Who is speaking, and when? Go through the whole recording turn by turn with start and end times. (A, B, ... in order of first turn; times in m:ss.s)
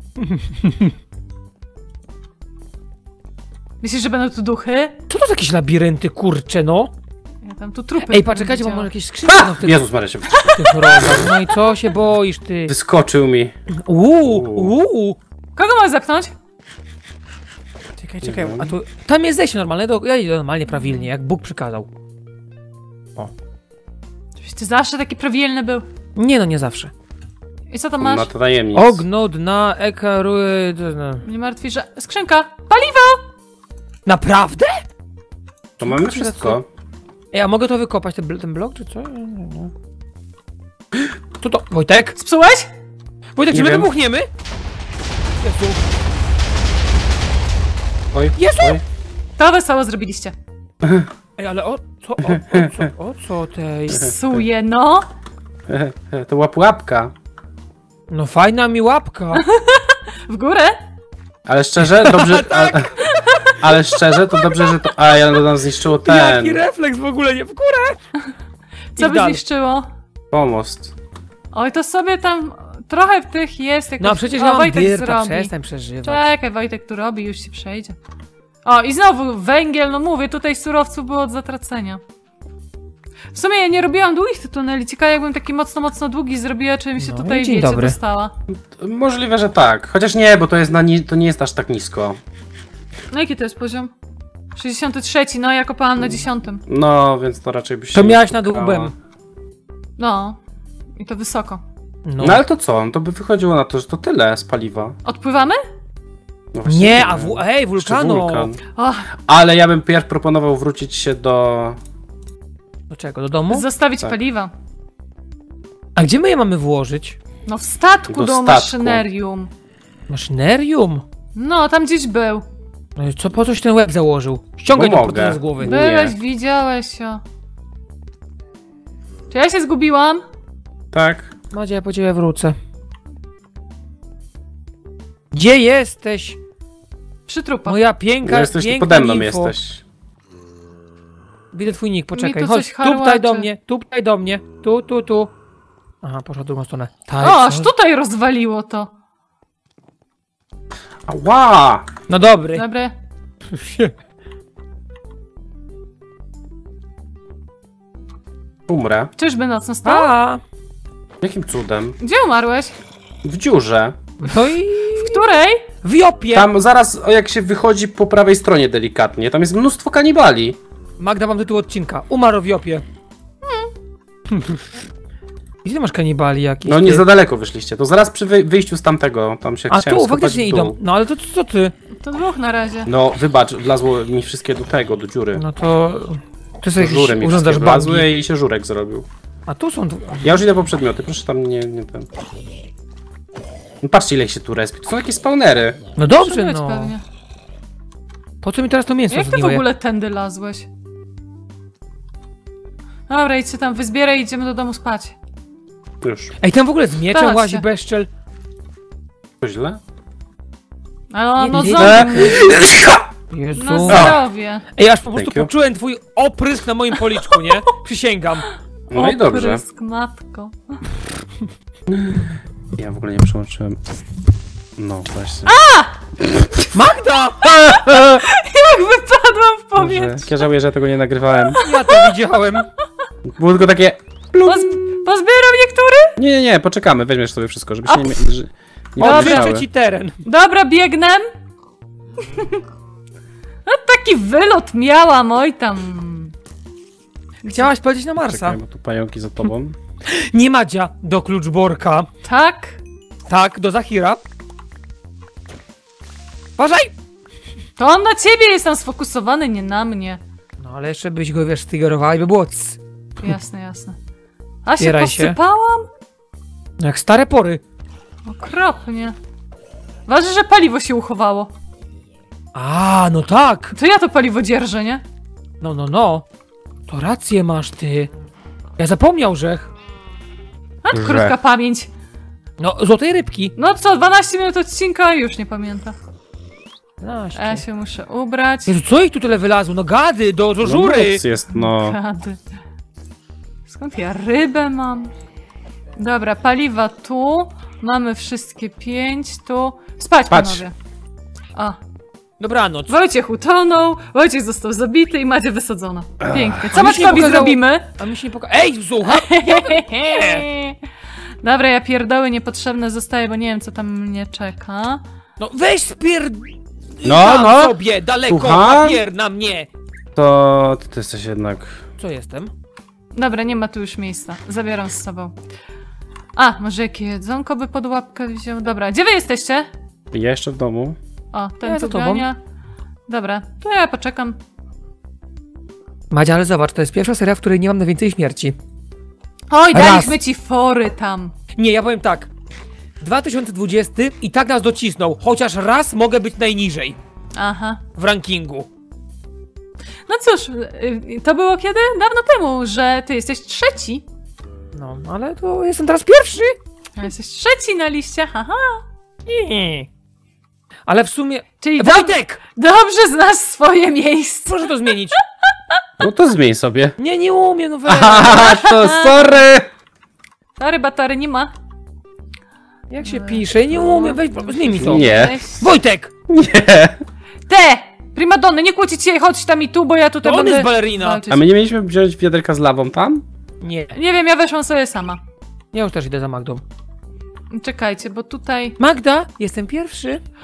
0:00.2-0:00.9 A
0:03.8-0:05.0 B
0:05.1-0:06.9 A
0:07.4-0:08.9 B
0:08.1-0:09.9 A
0:09.3-0:11.3 C
0:10.5-0:12.7 A
0:12.7-0:13.5 C
0:13.7-0:15.2 A
0:14.2-0:14.7 C
0:15.6-0:16.3 B
0:18.0-0:21.9 A
0:18.2-0:18.7 C
0:24.4-0:25.9 B
0:26.2-0:26.9 A
0:27.7-0:28.3 B
0:28.0-0:29.0 C
0:28.7-0:31.2 A
0:31.2-0:33.2 B
0:34.1-0:34.8 A
0:35.8-0:36.6 C
0:35.8-0:36.6 A
0:37.3-0:39.7 A
0:41.4-0:42.2 A
0:42.2-0:42.7 B
0:43.4-0:44.3 A
0:43.5-0:43.9 C
0:45.4-0:45.8 A
0:48.1-0:48.8 C
0:48.4-0:48.8 A
0:49.4-0:50.3 B
0:50.8-0:51.1 C
0:51.4-0:54.1 A
0:52.3-0:52.7 C
0:53.9-0:55.1 B
0:53.9-0:54.4 C
0:55.7-0:57.1 C
0:58.1-0:59.4 A
0:59.3-1:00.8 B
1:01.5-1:02.9 C
1:02.0-1:02.9 A
1:03.0-1:04.8 B
1:03.6-1:06.6 C
1:06.0-1:08.0 A
1:09.0-1:09.9 B
1:09.0-1:09.4 A
1:10.3-1:10.9 C
1:11.5-1:15.5 B
1:14.0-1:16.2 A
1:16.0-1:18.0 B
1:18.6-1:22.0 B
1:23.3-1:28.3 B
1:27.0-1:28.0 A
1:28.5-1:32.2 C
1:33.1-1:33.9 B
1:34.6-1:36.6 B
1:36.7-1:38.9 C
1:37.9-1:38.9 A
1:40.0-1:40.4 B
1:41.0-1:41.6 B
1:42.1-1:42.4 A
1:42.2-1:45.0 C
1:45.0-1:45.6 B
1:46.5-1:48.6 C
1:46.7-1:48.5 A
1:48.8-1:49.1 B
1:49.3-1:51.8 C
1:52.9-1:53.6 A
1:53.5-1:54.5 B
1:56.0-1:57.2 A
1:57.5-1:59.5 B
1:58.1-1:59.0 C
2:00.1-2:01.0 A
2:01.4-2:02.4 B
2:03.0-2:05.7 A
2:04.7-2:06.2 C
2:05.6-2:07.2 B
2:09.3-2:10.2 B
2:10.9-2:11.3 C
2:11.5-2:12.6 A
2:15.3-2:16.4 A
2:17.3-2:17.8 B
2:17.7-2:19.5 A
2:18.2-2:19.8 C
2:21.5-2:25.3 A
2:22.1-2:23.5 B
2:26.0-2:27.7 A
2:27.2-2:28.9 B
2:31.1-2:31.9 C
2:32.1-2:32.6 A
2:32.5-2:32.9 B
2:33.5-2:33.9 A
2:38.7-2:39.1 C
2:39.2-2:40.1 B
2:39.8-2:40.4 A
2:41.2-2:42.0 C
2:42.0-2:42.7 B
2:43.2-2:44.0 C
2:44.2-2:45.2 A
2:45.0-2:45.7 B
2:45.8-2:46.5 A
2:46.3-2:50.6 C
2:51.0-2:52.8 A
2:53.4-2:53.7 B
2:54.3-2:54.6 A
2:55.6-2:57.0 A
2:56.7-3:00.8 C
2:59.7-3:01.7 A
3:02.0-3:02.9 B
3:02.9-3:05.4 C
3:05.4-3:08.1 A
3:06.8-3:09.1 C
3:09.5-3:10.4 A
3:10.2-3:12.1 C
3:13.8-3:15.8 C
3:16.0-3:16.9 A
3:16.1-3:17.0 B
3:18.4-3:19.6 A
3:19.1-3:20.7 B
3:23.1-3:25.2 B
3:26.0-3:26.4 C
3:26.4-3:28.1 A
3:27.1-3:27.6 B
3:29.4-3:29.8 C
3:31.1-3:32.6 B
3:31.4-3:32.6 A
3:31.6-3:33.0 C
3:33.3-3:34.2 A
3:33.6-3:34.6 B
3:33.9-3:34.2 C
3:34.8-3:38.5 A
3:35.1-3:35.5 C
3:38.9-3:40.8 B
3:38.9-3:39.6 C
3:41.9-3:43.8 C
3:44.8-3:45.6 C
3:45.5-3:46.0 B
3:46.2-3:46.7 C
3:46.7-3:47.6 A
3:47.4-3:50.4 B
3:47.5-3:48.2 C
3:49.8-3:51.6 C
3:51.5-3:52.2 B
3:51.6-3:52.7 A
3:53.2-3:55.0 C
3:54.4-3:56.2 B
3:56.2-3:59.7 C
3:57.9-3:58.2 B
3:59.0-4:00.2 A
3:59.0-3:59.6 B
4:00.2-4:01.3 B
4:02.3-4:02.6 B
4:03.7-4:06.3 B
4:07.4-4:07.7 B
4:07.5-4:08.6 A
4:08.3-4:09.8 C
4:10.0-4:12.1 A
4:12.2-4:12.8 B
4:13.3-4:14.2 A
4:16.6-4:16.9 A
4:17.8-4:20.2 B
4:20.6-4:22.8 A
4:23.2-4:24.0 B
4:24.6-4:25.9 B
4:24.8-4:25.4 A
4:26.8-4:27.6 A
4:28.3-4:29.2 B
4:30.1-4:31.5 B
4:32.6-4:33.7 A
4:33.7-4:35.0 B
4:35.6-4:36.2 A
4:36.9-4:38.1 A
4:38.8-4:39.7 A
4:40.8-4:41.9 B
4:40.9-4:41.4 C
4:42.6-4:43.5 A
4:43.6-4:46.0 B
4:47.0-4:47.6 A
4:47.4-4:48.8 B
4:48.7-4:51.2 A
4:50.6-4:52.0 C
4:51.5-4:52.4 B
4:53.7-4:55.1 B
4:56.0-5:00.7 B
5:00.3-5:00.6 C
5:02.4-5:02.9 A
5:02.9-5:07.9 B
5:06.2-5:06.6 C
5:06.7-5:10.5 A
5:09.1-5:10.8 B
5:11.4-5:15.0 B
5:15.4-5:19.7 A
5:17.0-5:19.0 C
5:20.2-5:21.8 C
5:22.0-5:22.5 A
5:23.1-5:25.4 B
5:26.4-5:29.7 B
5:30.1-5:31.0 C
5:31.3-5:32.4 B
5:31.6-5:32.3 A
5:33.1-5:34.4 B
5:36.1-5:38.6 A
5:39.5-5:41.3 B
5:39.7-5:40.2 A
5:41.6-5:42.3 A
5:43.0-5:47.0 A
5:47.4-5:47.8 B
5:48.0-5:48.7 A
5:50.1-5:54.0 B
5:54.7-5:56.6 A
5:57.0-5:58.8 B
5:59.3-5:59.9 A
6:00.9-6:02.4 A
6:01.6-6:05.0 B
6:04.5-6:05.2 A
6:06.0-6:07.0 C
6:07.0-6:08.6 A
6:07.8-6:09.7 C
6:08.2-6:09.5 B
6:10.6-6:11.5 B
6:12.9-6:16.1 A
6:13.0-6:15.6 B
6:14.8-6:15.4 C
6:16.3-6:17.0 C
6:17.5-6:21.4 B
6:20.2-6:21.2 A
6:21.3-6:23.2 C
6:23.6-6:24.0 A
6:24.0-6:25.2 B
6:25.7-6:26.6 A
6:27.5-6:28.8 B
6:28.8-6:30.2 A